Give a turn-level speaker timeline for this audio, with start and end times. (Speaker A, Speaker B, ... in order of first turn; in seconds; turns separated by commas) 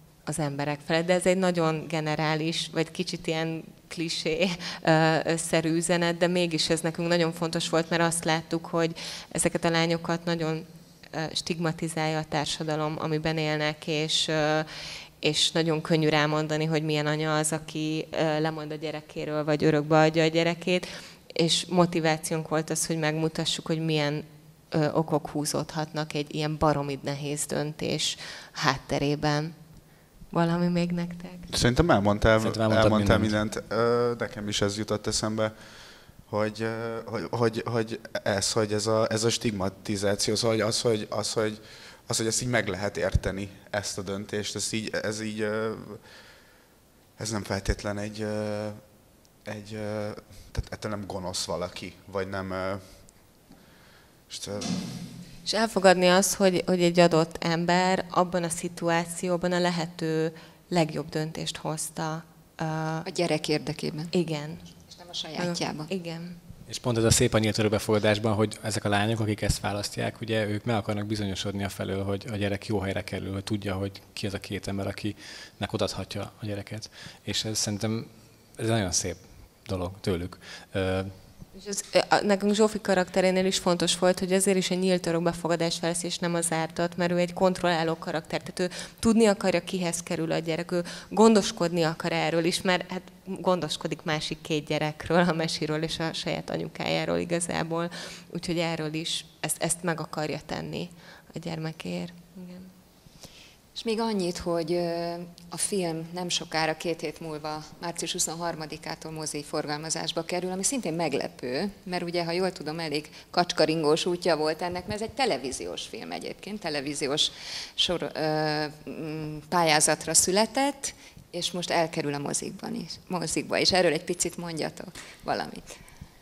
Speaker A: 0.2-14.7, Speaker A: 15.2-29.6, Speaker A: 30.3-31.5, Speaker B: 31.5-35.5, Speaker C: 32.4-33.3, Speaker B: 36.3-46.0, Speaker B: 47.2-48.8, Speaker B: 49.4-52.9, Speaker B: 54.3-54.7, Speaker A: 55.5-63.1, Speaker D: 63.0-64.1, Speaker A: 64.1-64.7, Speaker D: 64.8-65.9, Speaker A: 65.4-66.3, Speaker C: 66.7-81.2, Speaker A: 81.5-102.7, Speaker D: 103.7-125.8